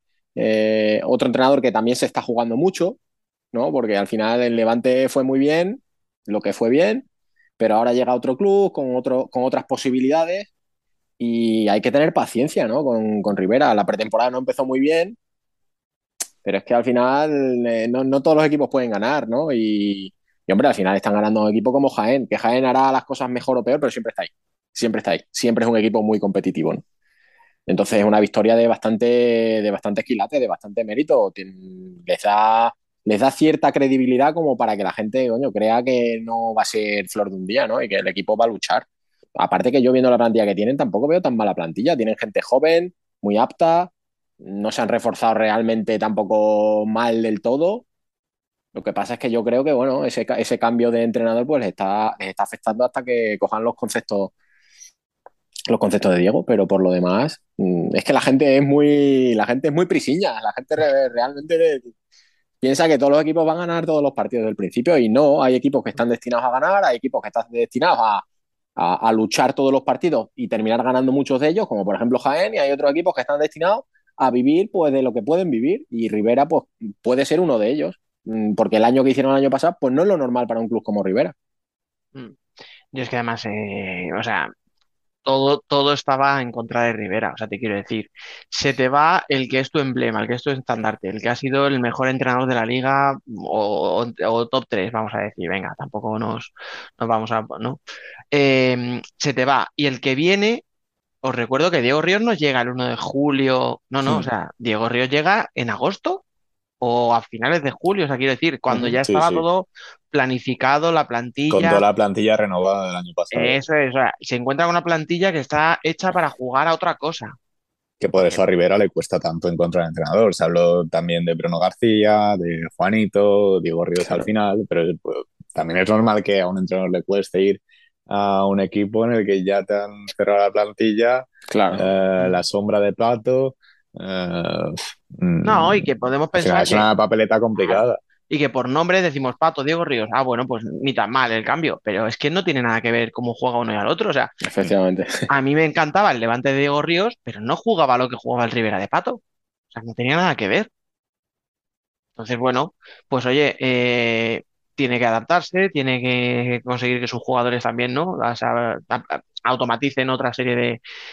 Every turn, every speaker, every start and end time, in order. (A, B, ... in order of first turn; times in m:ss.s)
0:00.4-0:03.0 A
0:03.5-0:07.0 A
0:07.6-0:10.5 A
0:11.2-0:15.2 A
0:16.4-0:26.8 A
0:27.7-0:38.8 A
0:39.4-0:43.9 A
0:44.4-0:47.9 A
0:48.8-0:54.3 A
0:55.7-1:01.9 A
1:02.6-1:08.2 A
1:08.8-1:21.3 A
1:22.9-1:24.5 B
1:25.3-1:37.8 B
1:38.3-1:40.6 B
1:41.2-1:46.2 B
1:46.8-1:51.8 B
1:48.7-1:49.4 C
1:51.5-1:53.6 C
1:53.3-1:57.4 B
1:58.0-2:18.0 C
2:11.5-2:11.8 A
2:15.4-2:16.9 B
2:17.6-2:24.3 B
2:24.4-2:25.1 A
2:25.3-2:29.2 B
2:29.7-2:30.7 B
2:32.2-2:40.8 B